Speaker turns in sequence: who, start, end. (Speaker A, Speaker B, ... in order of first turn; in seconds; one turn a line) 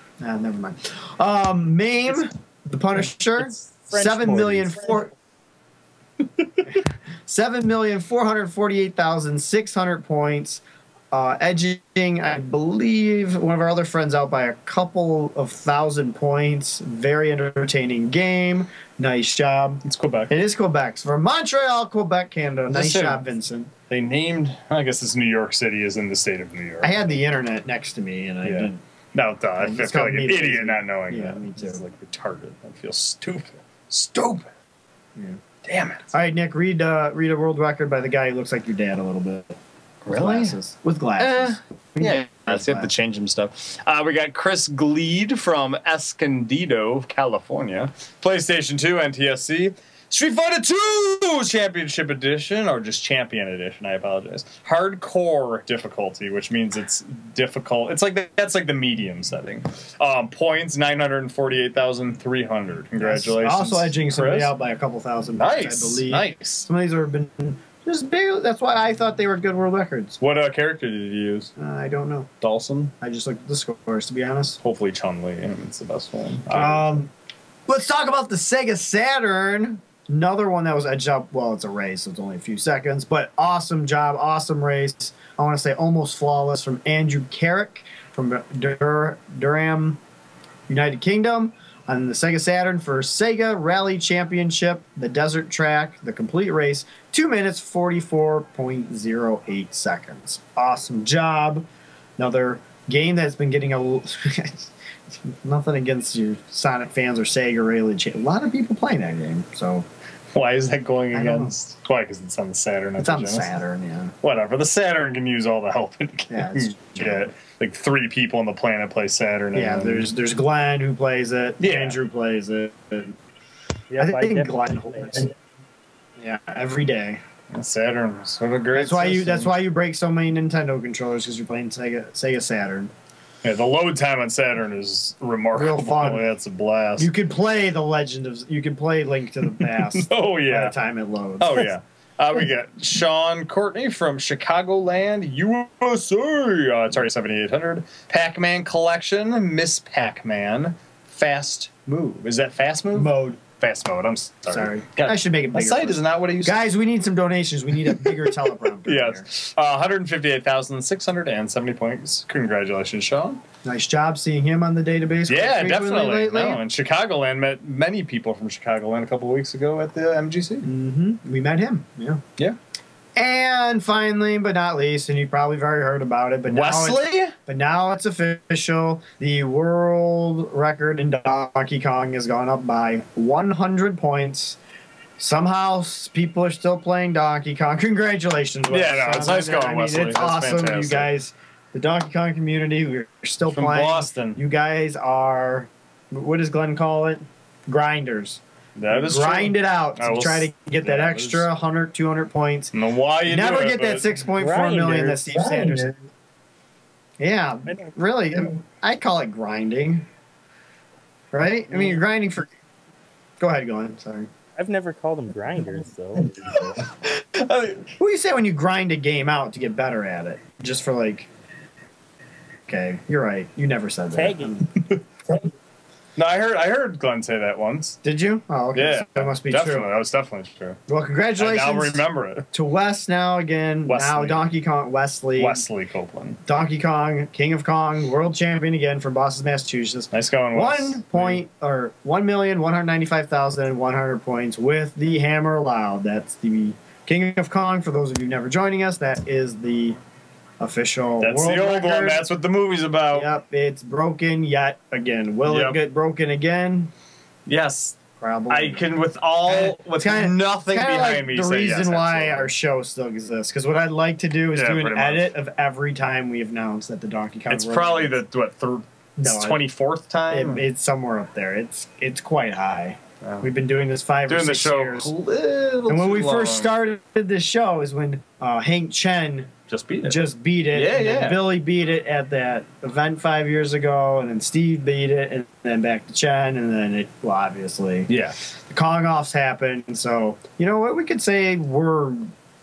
Speaker A: 0.2-5.1
Speaker B: 3.4-5.0
Speaker A: 6.7-23.7
Speaker C: 19.8-20.3
Speaker C: 22.7-23.2
Speaker C: 23.9-27.2
Speaker A: 26.8-28.8
Speaker C: 28.4-34.5
Speaker A: 29.6-31.8
Speaker C: 35.6-36.1
Speaker A: 36.1-39.5
Speaker C: 40.0-40.5
Speaker A: 40.1-42.9
Speaker C: 41.2-64.5
Speaker A: 63.0-70.2
Speaker C: 65.4-66.7
Speaker C: 70.2-71.5
Speaker A: 71.6-72.3
Speaker C: 72.4-72.9
Speaker A: 73.0-74.6
Speaker C: 74.6-76.9
Speaker A: 76.5-77.1
Speaker A: 77.7-90.0
Speaker A: 90.7-101.7
Speaker A: 102.2-109.9
Speaker C: 110.3-113.5
Speaker A: 111.1-111.5
Speaker A: 113.0-114.1
Speaker C: 114.2-120.1
Speaker A: 116.3-117.3
Speaker A: 119.5-123.1
Speaker C: 121.6-122.0
Speaker B: 123.9-125.2
Speaker A: 124.0-125.3
Speaker A: 126.2-127.2
Speaker C: 127.5-129.6
Speaker A: 128.7-132.9
Speaker C: 133.4-137.1
Speaker A: 135.5-136.2
Speaker A: 137.0-141.7
Speaker C: 139.6-140.7
Speaker C: 141.4-156.7
Speaker A: 152.9-153.4
Speaker A: 154.5-159.3
Speaker C: 157.8-158.3
Speaker C: 158.8-163.4
Speaker A: 163.6-166.6
Speaker C: 165.3-170.7
Speaker A: 170.6-172.2
Speaker A: 173.2-184.6
Speaker C: 176.5-177.3
Speaker A: 185.2-202.7
Speaker C: 188.7-191.1
Speaker C: 193.5-194.4
Speaker C: 198.8-201.5
Speaker C: 202.7-204.1
Speaker A: 203.3-205.9
Speaker B: 204.4-205.8
Speaker A: 207.2-210.1
Speaker A: 211.3-212.5
Speaker A: 213.4-214.3
Speaker B: 214.6-216.8
Speaker C: 217.2-217.9
Speaker A: 218.0-221.3
Speaker A: 222.7-224.7
Speaker B: 224.1-224.5
Speaker C: 226.2-228.0
Speaker A: 228.0-229.9
Speaker C: 228.7-230.8
Speaker A: 230.9-235.6
Speaker C: 231.4-232.4
Speaker C: 233.9-234.5
Speaker C: 235.4-236.4
Speaker A: 236.4-250.0
Speaker C: 240.1-241.4
Speaker A: 250.6-252.2
Speaker C: 251.2-253.3
Speaker A: 253.1-256.9
Speaker C: 255.5-255.8
Speaker C: 257.4-262.5
Speaker A: 258.2-258.9
Speaker A: 259.4-268.2
Speaker C: 264.5-265.3
Speaker C: 267.5-270.6
Speaker A: 269.2-269.6
Speaker A: 270.3-275.1
Speaker C: 273.2-273.5
Speaker C: 274.3-276.8
Speaker A: 275.9-279.5
Speaker C: 279.7-281.5
Speaker A: 280.0-288.1
Speaker C: 288.1-288.4
Speaker A: 288.7-292.3